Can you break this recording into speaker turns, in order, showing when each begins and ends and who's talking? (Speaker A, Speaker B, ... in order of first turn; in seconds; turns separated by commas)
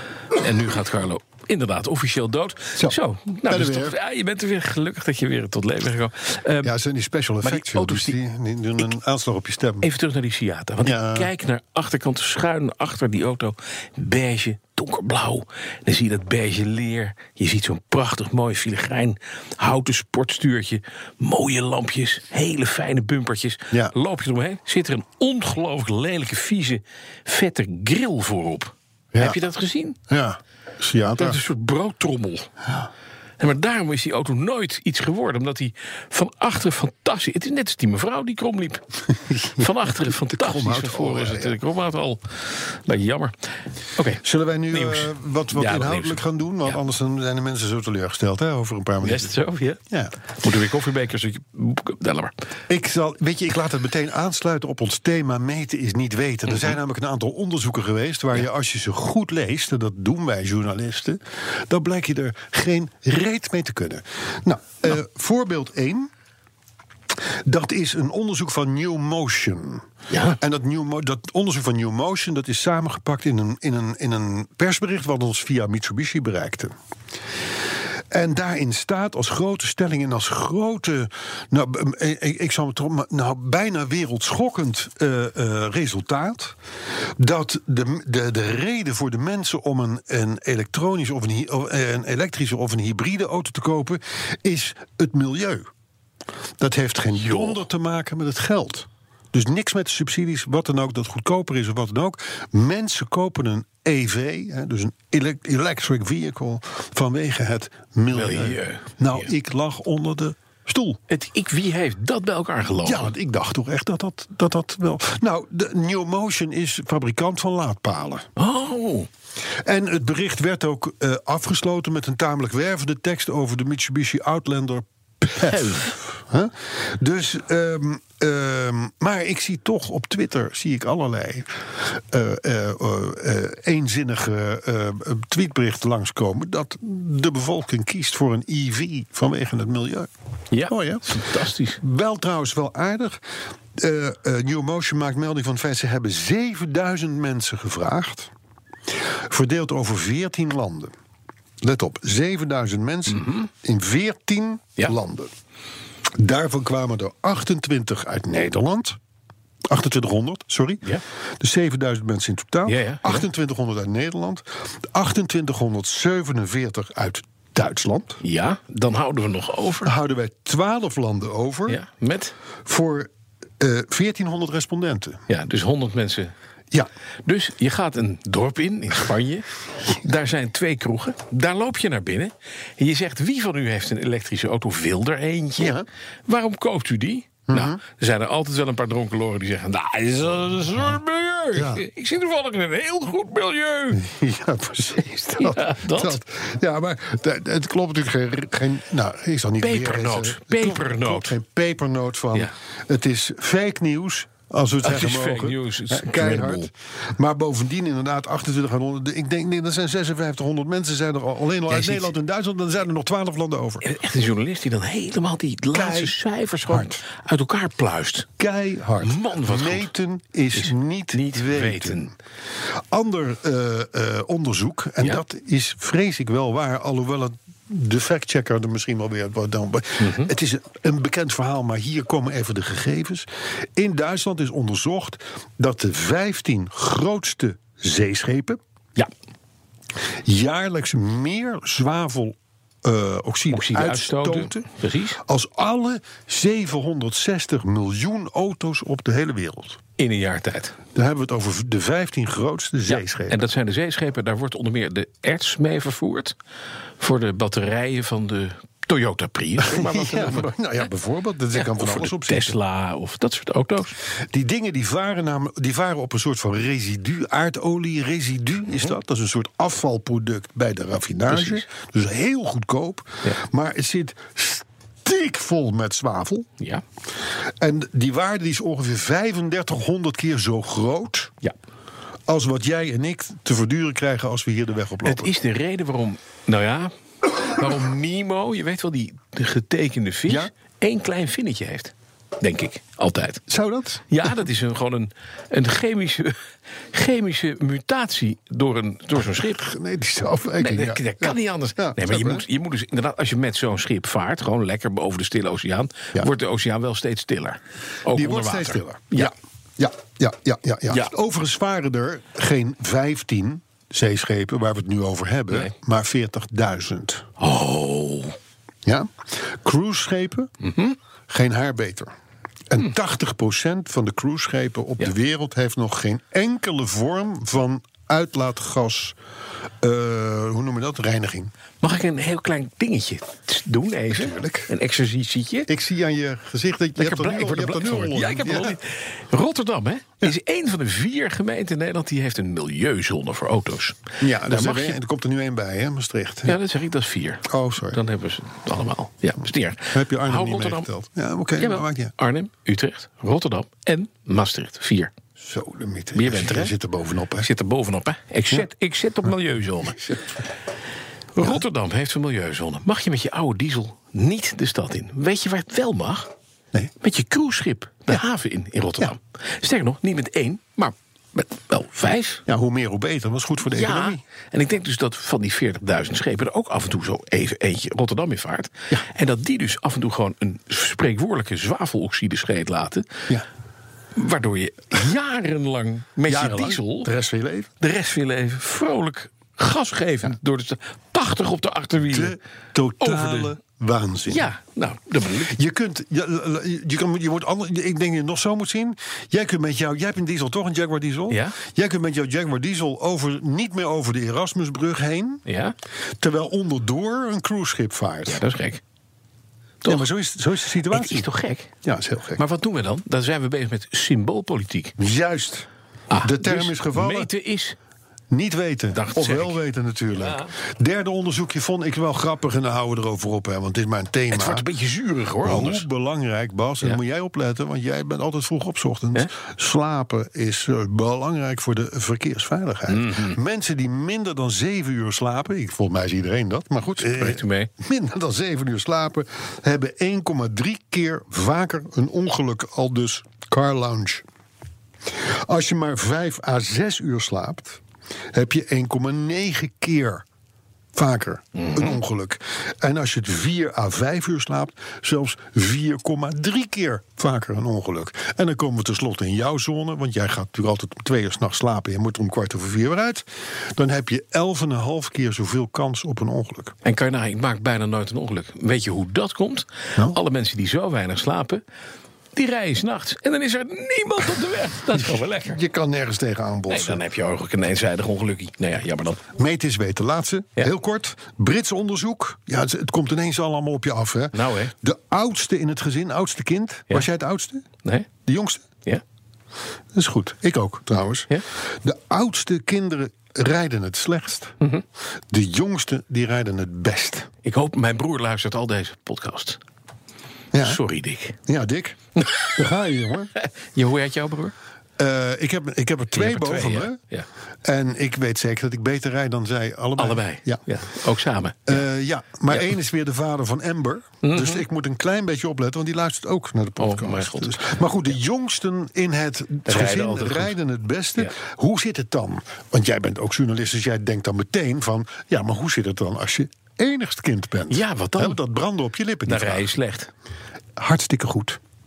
Speaker A: 0.3-6.7, Speaker B: 2.8-4.0, Speaker B: 6.6-9.9, Speaker A: 7.4-8.2, Speaker A: 9.8-30.0, Speaker B: 10.8-11.3, Speaker B: 29.1-29.4, Speaker B: 30.1-31.4, Speaker A: 31.1-32.5, Speaker A: 33.4-38.8, Speaker B: 39.3-41.6, Speaker A: 39.5-43.4, Speaker A: 44.0-46.8, Speaker B: 44.2-49.3, Speaker A: 49.0-49.8, Speaker A: 50.4-52.3, Speaker B: 52.7-66.1, Speaker B: 67.5-69.9, Speaker A: 70.1-70.4, Speaker B: 70.4-76.7, Speaker B: 78.1-86.5, Speaker B: 87.2-95.7, Speaker B: 96.6-111.0, Speaker A: 97.2-97.6, Speaker A: 108.1-109.0, Speaker A: 111.1-113.1, Speaker B: 112.8-118.3, Speaker A: 118.4-119.1, Speaker B: 119.7-140.1, Speaker A: 125.4-126.0, Speaker A: 140.5-141.8, Speaker B: 140.7-141.2, Speaker B: 141.8-143.2, Speaker B: 143.8-148.3, Speaker B: 149.3-150.9, Speaker B: 151.6-155.3, Speaker A: 153.1-153.5, Speaker B: 156.2-159.0, Speaker B: 159.7-160.9, Speaker B: 161.4-168.2, Speaker A: 162.7-163.3, Speaker A: 168.2-169.9, Speaker B: 169.8-171.8, Speaker A: 171.7-172.3, Speaker B: 172.7-175.2, Speaker A: 175.3-176.3, Speaker A: 177.3-194.0, Speaker B: 185.6-185.9, Speaker B: 187.5-187.8, Speaker B: 191.6-191.8, Speaker B: 193.9-213.9, Speaker A: 195.4-196.2, Speaker A: 199.6-201.4, Speaker A: 204.8-206.7, Speaker A: 211.7-212.1, Speaker A: 213.8-218.3, Speaker B: 215.7-216.2, Speaker B: 216.7-217.0, Speaker B: 218.4-222.1, Speaker A: 219.0-219.9, Speaker A: 220.5-222.1, Speaker B: 222.9-238.6, Speaker A: 230.0-230.3, Speaker B: 240.2-244.7, Speaker A: 243.5-245.2, Speaker B: 245.2-249.8, Speaker A: 250.0-250.8, Speaker B: 250.9-253.4, Speaker A: 252.9-256.4, Speaker A: 257.0-260.5, Speaker B: 259.6-262.6, Speaker A: 261.6-263.9, Speaker B: 264.3-276.5, Speaker A: 271.3-271.6, Speaker B: 277.6-281.3, Speaker B: 282.3-285.3, Speaker A: 285.0-286.9, Speaker A: 287.4-293.4, Speaker B: 293.5-294.1, Speaker A: 294.1-296.4, Speaker A: 296.9-299.7, Speaker B: 299.5-302.4, Speaker A: 300.6-309.3, Speaker B: 308.1-317.3, Speaker A: 317.4-318.4, Speaker B: 318.9-320.5, Speaker A: 320.6-321.0, Speaker B: 321.3-322.1, Speaker B: 322.7-329.2, Speaker B: 329.8-331.5, Speaker A: 331.8-335.7, Speaker B: 334.1-334.7, Speaker B: 335.7-338.8, Speaker A: 337.0-345.0, Speaker B: 344.2-346.6, Speaker A: 346.5-350.9, Speaker B: 347.5-348.0, Speaker B: 349.9-352.1, Speaker A: 351.6-355.1, Speaker B: 355.4-357.5, Speaker A: 356.1-356.7, Speaker A: 357.4-360.2, Speaker A: 361.4-366.3, Speaker A: 367.0-372.4, Speaker B: 372.5-374.2, Speaker A: 373.7-383.3, Speaker A: 384.2-387.1, Speaker B: 386.3-387.7, Speaker A: 387.8-392.4, Speaker B: 392.1-394.5, Speaker A: 393.0-393.6, Speaker A: 394.3-395.5, Speaker B: 395.4-405.4, Speaker A: 401.3-401.6, Speaker A: 405.5-405.8, Speaker B: 406.2-408.4, Speaker A: 408.3-408.8, Speaker B: 409.9-411.3, Speaker A: 410.9-411.8, Speaker B: 411.8-412.4, Speaker A: 412.4-415.0, Speaker B: 415.0-415.7, Speaker A: 416.1-417.8, Speaker B: 416.2-417.3, Speaker B: 418.3-424.7, Speaker A: 418.9-419.6, Speaker A: 420.2-420.5, Speaker A: 424.3-425.9, Speaker B: 425.4-444.2, Speaker A: 432.9-433.4, Speaker A: 437.0-437.7, Speaker B: 445.2-447.8, Speaker B: 448.3-450.2, Speaker B: 450.9-466.8, Speaker A: 451.6-452.0, Speaker A: 466.9-471.6, Speaker A: 472.4-475.6, Speaker B: 475.0-477.0, Speaker A: 476.7-479.2, Speaker B: 479.4-487.7, Speaker A: 484.3-484.7, Speaker B: 488.2-488.7, Speaker B: 489.9-491.3, Speaker B: 491.8-494.6, Speaker B: 495.3-497.3, Speaker A: 497.4-499.6, Speaker B: 500.5-500.8, Speaker A: 500.6-501.4, Speaker B: 501.5-502.0, Speaker A: 502.2-502.6, Speaker B: 502.6-503.3, Speaker A: 503.4-504.5, Speaker B: 505.0-507.0, Speaker A: 506.1-507.3, Speaker B: 507.6-510.6, Speaker A: 510.0-511.9, Speaker B: 511.7-529.7, Speaker A: 514.2-514.6, Speaker A: 516.8-517.7, Speaker A: 519.7-520.5, Speaker A: 527.7-528.4, Speaker A: 529.3-530.1, Speaker B: 530.8-531.6